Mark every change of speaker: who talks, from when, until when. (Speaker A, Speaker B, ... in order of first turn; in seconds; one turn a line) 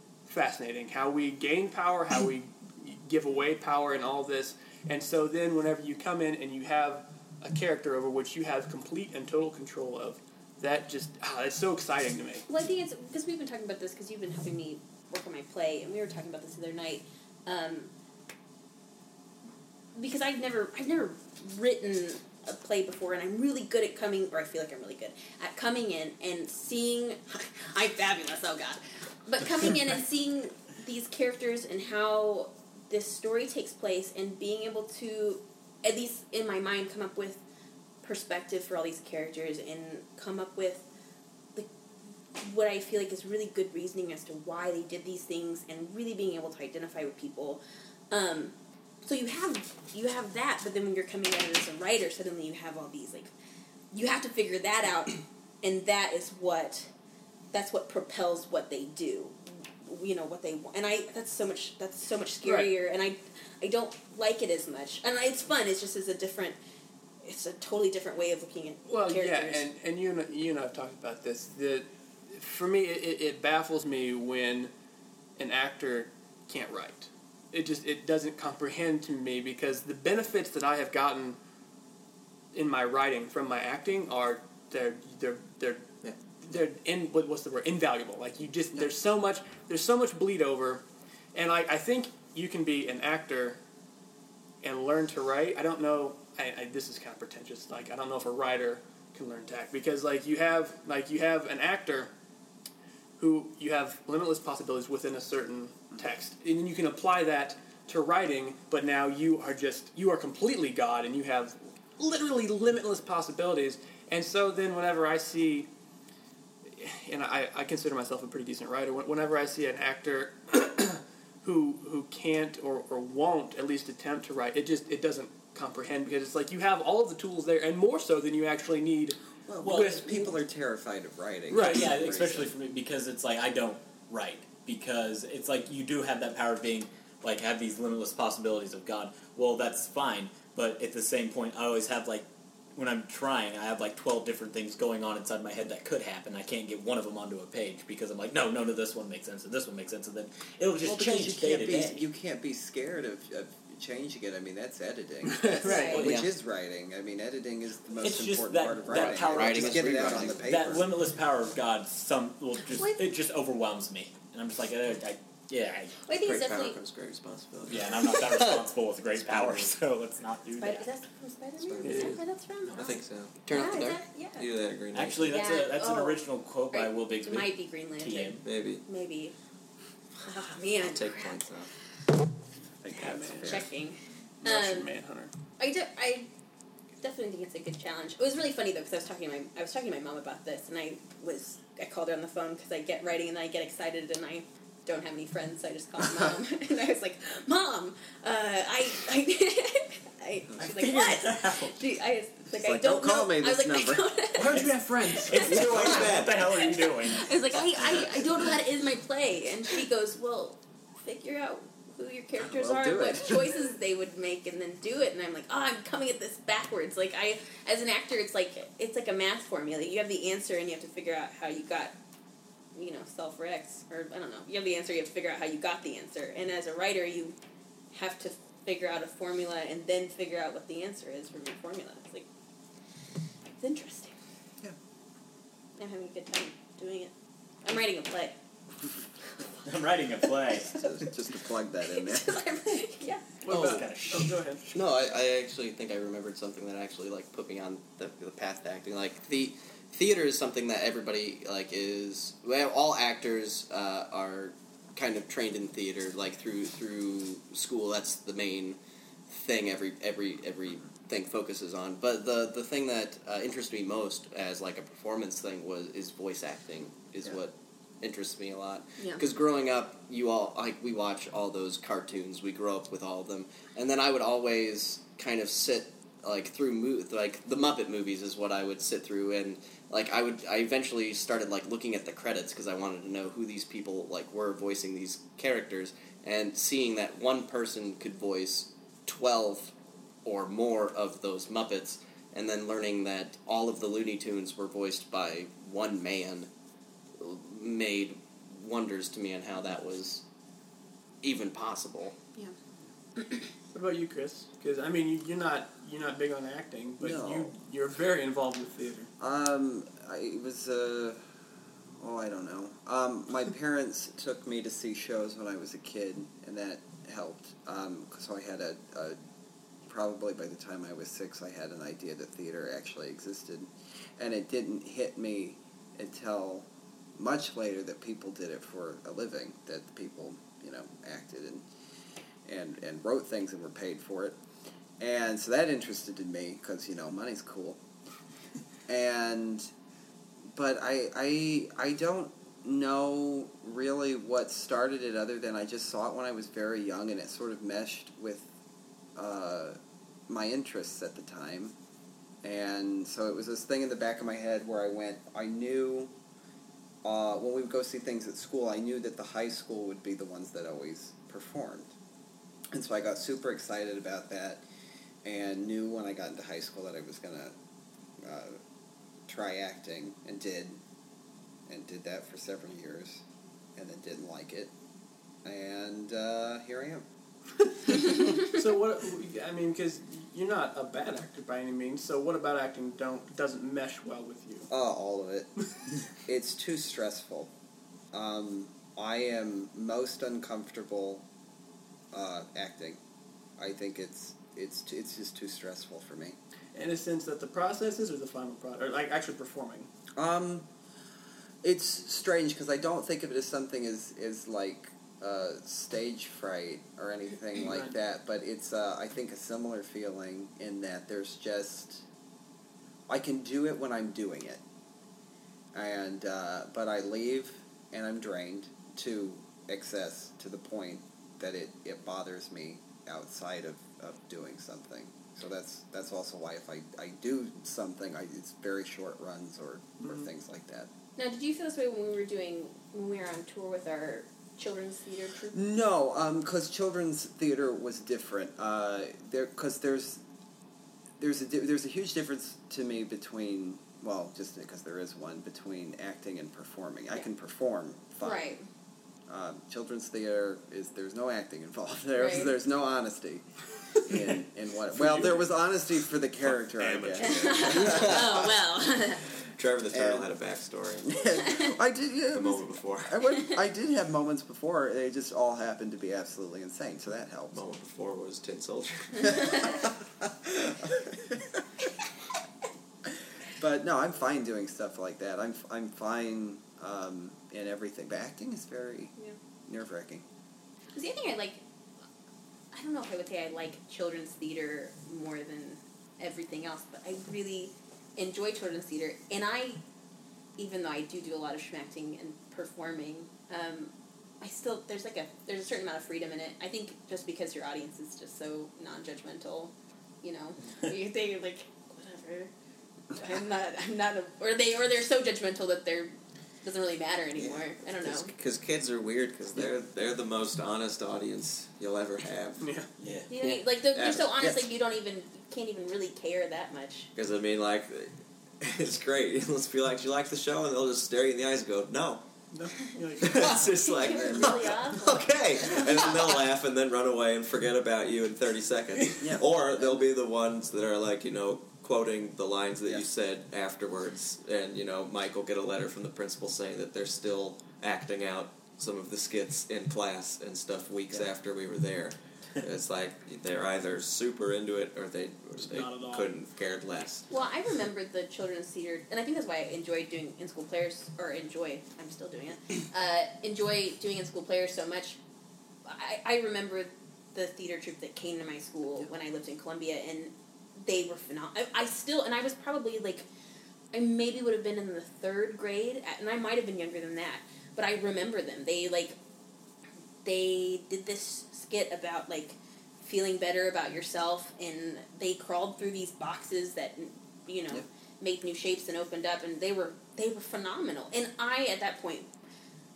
Speaker A: 0.2-12.4
Speaker B: 12.5-17.9
Speaker B: 19.9-37.4
Speaker B: 38.0-40.9
Speaker B: 42.4-53.3
Speaker B: 53.9-56.9
Speaker B: 57.5-66.6
Speaker A: 62.4-62.7
Speaker B: 67.2-69.7
Speaker A: 68.9-74.7
Speaker A: 75.4-81.4
Speaker A: 82.5-85.8
Speaker A: 86.4-90.8
Speaker A: 91.3-93.6
Speaker A: 94.6-102.1
Speaker A: 103.2-115.7
Speaker A: 116.7-130.1
Speaker C: 129.5-132.5
Speaker D: 129.6-130.2
Speaker A: 131.5-131.8
Speaker D: 131.5-152.0
Speaker C: 150.8-160.9
Speaker A: 155.3-156.0
Speaker B: 155.6-156.0
Speaker D: 155.7-156.3
Speaker D: 158.0-166.0
Speaker E: 159.0-160.4
Speaker B: 166.1-166.8
Speaker F: 166.1-168.3
Speaker D: 167.7-170.9
Speaker F: 169.2-169.7
Speaker B: 170.6-172.9
Speaker F: 171.6-172.2
Speaker A: 171.8-172.2
Speaker F: 172.8-173.6
Speaker E: 173.4-174.0
Speaker B: 173.5-174.5
Speaker F: 174.4-175.4
Speaker D: 174.9-178.4
Speaker B: 175.3-179.3
Speaker F: 178.4-178.8
Speaker B: 180.2-181.3
Speaker F: 180.8-181.7
Speaker C: 182.8-183.6
Speaker A: 182.9-183.6
Speaker B: 183.4-184.9
Speaker A: 184.4-185.3
Speaker B: 185.6-186.3
Speaker B: 187.0-204.7
Speaker D: 200.6-201.8
Speaker C: 202.5-204.7
Speaker D: 204.3-207.8
Speaker B: 205.2-221.9
Speaker F: 205.4-206.3
Speaker C: 205.5-206.2
Speaker C: 212.4-213.5
Speaker B: 222.7-227.3
Speaker B: 227.9-232.2
Speaker B: 233.6-234.1
Speaker B: 235.8-237.1
Speaker B: 237.6-238.3
Speaker D: 239.6-240.8
Speaker C: 240.7-242.4
Speaker B: 241.9-243.3
Speaker A: 243.4-244.6
Speaker E: 243.5-243.9
Speaker D: 243.5-244.4
Speaker E: 244.7-296.5
Speaker E: 297.2-300.2
Speaker E: 301.2-302.1
Speaker A: 303.7-309.1
Speaker C: 307.0-307.5
Speaker C: 309.2-311.2
Speaker C: 312.0-319.2
Speaker C: 319.8-331.6
Speaker C: 332.4-334.4
Speaker C: 335.0-337.8
Speaker C: 338.9-339.7
Speaker C: 340.5-348.5
Speaker C: 349.1-349.8
Speaker C: 350.3-351.7
Speaker C: 352.4-356.1
Speaker C: 357.0-361.9
Speaker C: 362.7-364.6
Speaker C: 365.2-367.5
Speaker C: 368.2-368.6
Speaker C: 369.3-370.8
Speaker C: 371.7-373.2
Speaker C: 373.8-374.7
Speaker C: 375.4-377.0
Speaker A: 378.0-384.7
Speaker C: 384.7-385.6
Speaker C: 386.2-387.5
Speaker C: 388.1-391.2
Speaker C: 392.1-393.0
Speaker C: 393.6-396.4
Speaker A: 396.7-399.9
Speaker C: 400.1-400.7
Speaker C: 401.6-412.0
Speaker C: 413.1-414.6
Speaker C: 415.7-430.9
Speaker A: 430.0-430.3
Speaker B: 431.2-435.6
Speaker C: 435.5-440.2
Speaker C: 441.2-448.5
Speaker B: 448.2-448.6
Speaker C: 449.3-453.4
Speaker B: 452.2-452.5
Speaker C: 454.0-458.5
Speaker F: 456.4-458.5
Speaker B: 457.2-459.2
Speaker F: 459.6-461.4
Speaker C: 459.9-460.3
Speaker C: 461.0-467.6
Speaker F: 462.3-463.2
Speaker F: 467.5-469.8
Speaker C: 469.6-471.6
Speaker C: 473.6-479.1
Speaker C: 479.6-480.2
Speaker B: 480.9-481.6
Speaker B: 482.7-489.8
Speaker B: 490.6-502.5
Speaker B: 503.1-508.3
Speaker F: 507.4-512.6
Speaker A: 512.6-512.9
Speaker D: 513.0-513.3
Speaker B: 513.3-517.1
Speaker F: 513.9-514.6
Speaker F: 517.1-522.2
Speaker A: 522.5-523.6
Speaker F: 523.2-547.2
Speaker B: 523.5-525.9
Speaker C: 524.1-524.6
Speaker C: 529.2-530.0
Speaker D: 545.6-546.3
Speaker B: 547.3-555.2
Speaker B: 555.8-563.3
Speaker B: 563.9-569.2
Speaker B: 570.2-582.3